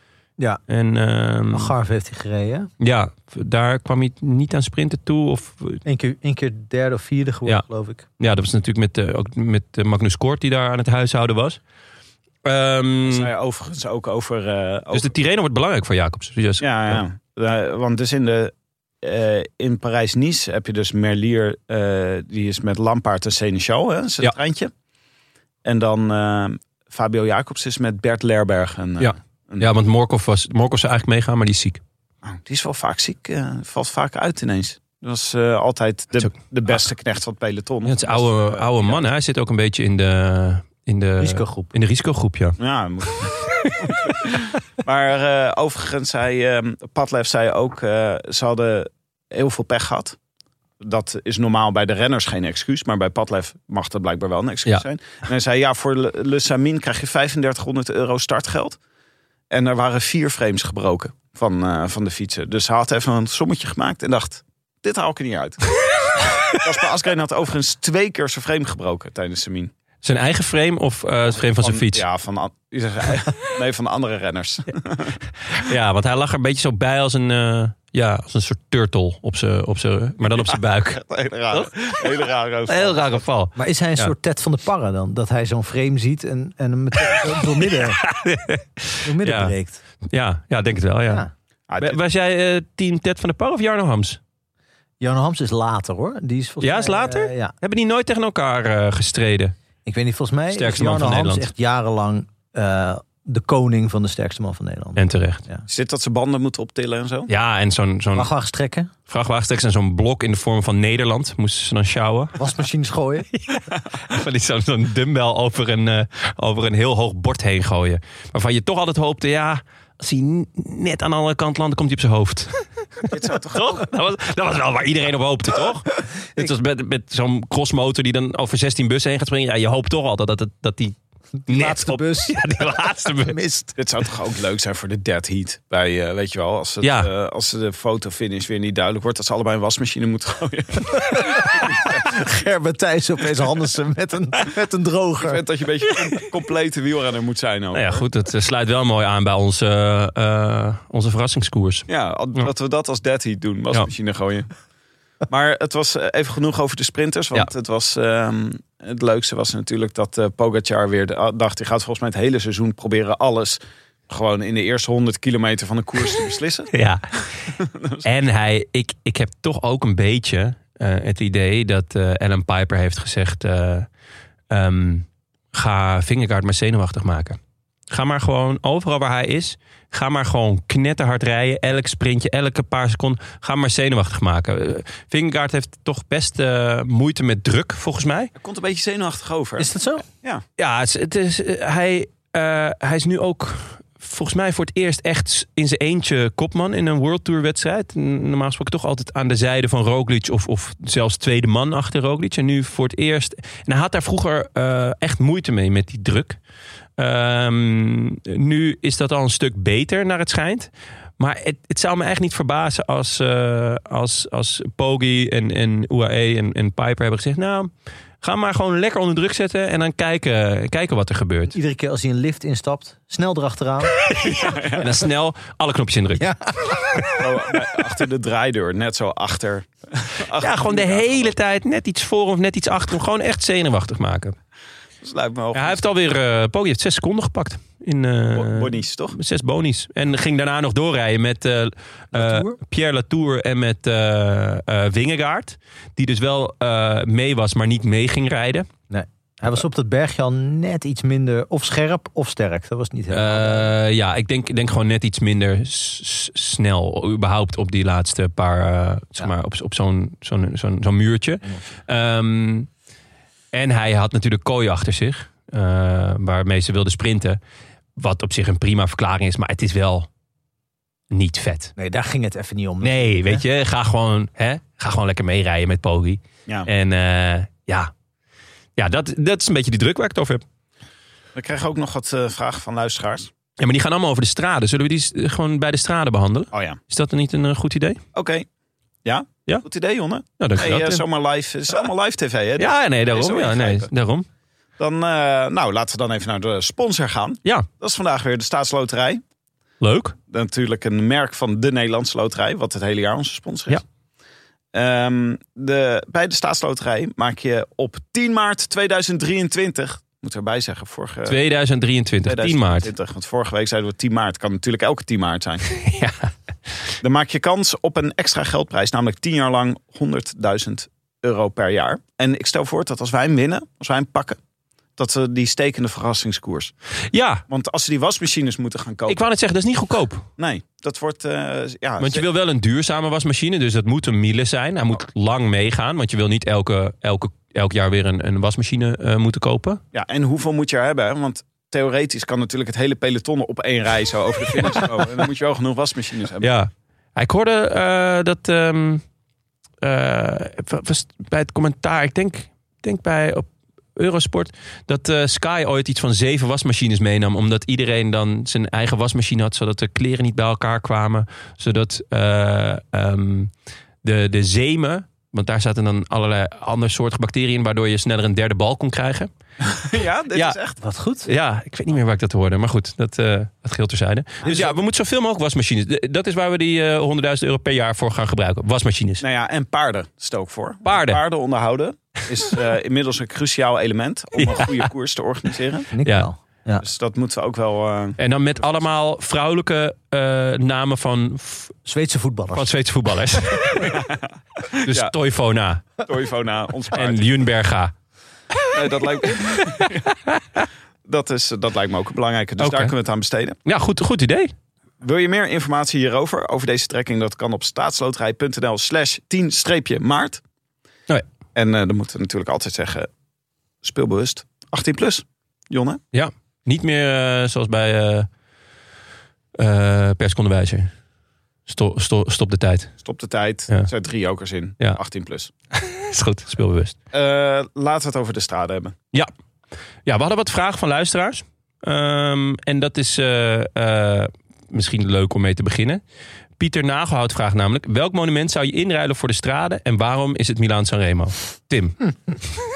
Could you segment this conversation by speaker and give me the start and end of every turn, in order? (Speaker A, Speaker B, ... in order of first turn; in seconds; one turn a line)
Speaker A: 0.7-1.7
Speaker B: 1.5-2.7
Speaker A: 2.8-5.8
Speaker B: 5.8-8.1
Speaker A: 8.2-11.6
Speaker A: 12.4-13.3
Speaker C: 13.1-15.1
Speaker A: 14.9-17.0
Speaker C: 16.6-24.7
Speaker C: 25.6-29.7
Speaker A: 29.0-31.8
Speaker C: 32.2-39.1
Speaker A: 37.8-42.6
Speaker B: 41.2-41.7
Speaker C: 42.6-50.2
Speaker C: 50.8-58.8
Speaker C: 59.5-65.6
Speaker C: 66.5-69.7
Speaker A: 70.0-72.0
Speaker C: 71.3-75.2
Speaker A: 75.5-82.1
Speaker C: 80.2-83.3
Speaker A: 82.7-84.1
Speaker B: 83.6-88.0
Speaker A: 87.0-89.5
Speaker B: 89.0-89.8
Speaker A: 90.1-91.2
Speaker C: 91.7-92.0
Speaker A: 91.8-94.2
Speaker B: 95.0-97.5
Speaker A: 96.6-99.5
Speaker B: 99.9-105.6
Speaker A: 100.5-101.5
Speaker A: 105.0-105.4
Speaker C: 105.7-107.3
Speaker A: 107.3-108.3
Speaker B: 108.1-108.9
Speaker A: 109.1-112.4
Speaker B: 112.4-113.3
Speaker A: 113.4-130.9
Speaker C: 123.1-123.9
Speaker B: 131.4-132.6
Speaker A: 131.5-133.4
Speaker B: 133.2-133.8
Speaker C: 133.8-142.0
Speaker A: 136.8-137.1
Speaker B: 141.1-145.4
Speaker C: 145.2-148.1
Speaker A: 147.7-152.5
Speaker C: 151.9-154.5
Speaker C: 155.3-166.7
Speaker A: 166.7-167.3
Speaker C: 167.5-168.1
Speaker A: 168.0-173.9
Speaker A: 174.5-177.4
Speaker A: 177.9-188.3
Speaker C: 188.3-190.4
Speaker B: 189.6-190.0
Speaker A: 190.6-206.4
Speaker A: 207.0-217.7
Speaker A: 218.2-221.6
Speaker B: 221.5-224.0
Speaker A: 224.1-226.2
Speaker C: 224.2-224.9
Speaker B: 226.2-227.2
Speaker C: 227.2-231.3
Speaker A: 230.4-234.4
Speaker C: 235.0-235.8
Speaker A: 235.5-248.7
Speaker C: 238.3-239.2
Speaker B: 242.1-242.6
Speaker B: 248.9-253.7
Speaker A: 253.1-262.7
Speaker A: 263.5-267.4
Speaker A: 267.9-270.1
Speaker A: 271.1-271.7
Speaker B: 271.8-273.4
Speaker A: 272.8-277.9
Speaker A: 278.8-280.4
Speaker C: 281.4-283.3
Speaker A: 283.6-288.0
Speaker C: 286.5-286.8
Speaker C: 288.1-288.5
Speaker C: 289.1-293.9
Speaker A: 290.4-291.1
Speaker A: 292.6-294.3
Speaker C: 294.8-299.2
Speaker A: 299.8-300.1
Speaker C: 300.3-303.8
Speaker C: 304.7-311.4
Speaker A: 311.3-312.9
Speaker C: 312.2-315.7
Speaker A: 315.8-316.3
Speaker C: 317.0-324.4
Speaker C: 325.0-326.7
Speaker A: 327.1-327.4
Speaker C: 327.5-329.3
Speaker A: 329.1-330.3
Speaker C: 330.4-332.2
Speaker A: 332.0-339.8
Speaker C: 339.9-346.5
Speaker A: 346.4-349.0
Speaker A: 349.8-363.5
Speaker A: 364.0-369.3
Speaker C: 369.6-370.8
Speaker B: 370.8-371.3
Speaker A: 371.3-379.2
Speaker C: 374.4-374.8
Speaker C: 379.2-385.9
Speaker A: 380.9-381.2
Speaker A: 384.4-384.9
Speaker B: 385.9-386.8
Speaker C: 386.8-388.2
Speaker A: 388.2-391.8
Speaker B: 391.9-392.7
Speaker A: 392.6-394.0
Speaker C: 393.9-394.3
Speaker A: 394.8-396.0
Speaker C: 394.9-395.1
Speaker C: 396.1-397.4
Speaker A: 396.9-397.9
Speaker C: 398.7-400.0
Speaker A: 399.4-400.6
Speaker C: 401.1-403.6
Speaker A: 402.6-402.9
Speaker A: 403.6-404.5
Speaker C: 405.0-410.4
Speaker C: 411.6-413.1
Speaker C: 413.8-416.0
Speaker A: 416.1-418.3
Speaker A: 419.6-420.9
Speaker A: 421.7-422.9
Speaker C: 423.0-425.5
Speaker A: 425.8-426.9
Speaker C: 427.1-428.9
Speaker A: 430.1-436.0
Speaker A: 436.6-442.4